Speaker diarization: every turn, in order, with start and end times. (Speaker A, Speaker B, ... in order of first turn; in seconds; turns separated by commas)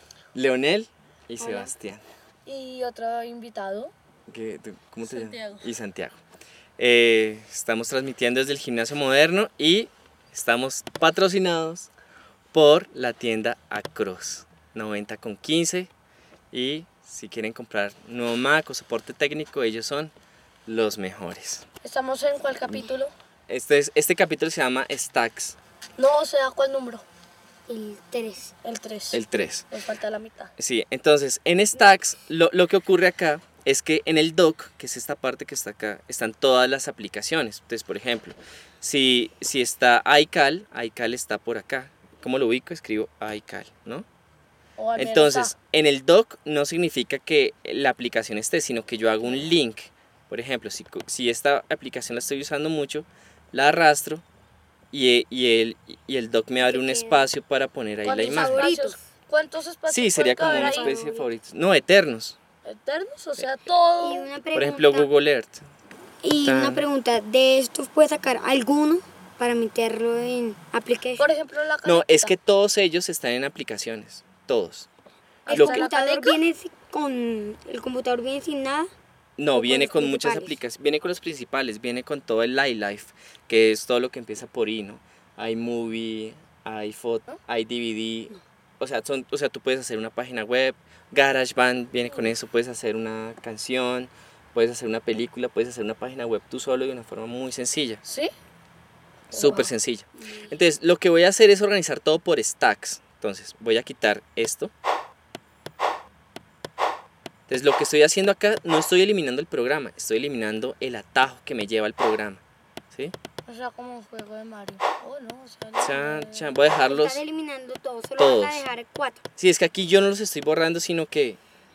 Speaker A: 0.3-2.0, Speaker B: 1.4-1.7, Speaker C: 2.5-3.9, Speaker A: 4.3-6.2, Speaker C: 5.0-5.7, Speaker A: 6.8-11.9, Speaker A: 12.5-15.9, Speaker A: 16.5-20.1, Speaker A: 20.6-21.6, Speaker C: 21.8-23.1, Speaker A: 23.5-25.6, Speaker C: 26.0-27.0, Speaker B: 27.7-28.5, Speaker C: 28.6-30.5, Speaker A: 29.1-29.6, Speaker A: 30.6-44.1, Speaker C: 44.8-45.5, Speaker A: 45.0-54.2, Speaker A: 54.9-58.7, Speaker B: 56.6-57.3, Speaker C: 58.0-60.9, Speaker B: 58.2-59.0, Speaker A: 59.9-62.4, Speaker B: 60.4-61.3, Speaker C: 62.6-64.3, Speaker B: 64.0-65.1, Speaker A: 64.5-65.7, Speaker B: 66.2-71.2, Speaker A: 66.4-66.9, Speaker C: 71.2-72.3, Speaker A: 71.8-74.9, Speaker C: 75.4-76.4, Speaker A: 75.5-75.9, Speaker B: 75.5-78.9, Speaker A: 79.4-98.0, Speaker B: 79.5-80.6, Speaker C: 98.0-98.3, Speaker C: 99.3-99.7, Speaker A: 99.3-104.7, Speaker B: 100.2-100.6, Speaker A: 107.5-113.1, Speaker C: 113.5-116.6, Speaker A: 115.8-117.2, Speaker B: 116.8-119.2, Speaker A: 118.2-118.7, Speaker A: 119.4-121.4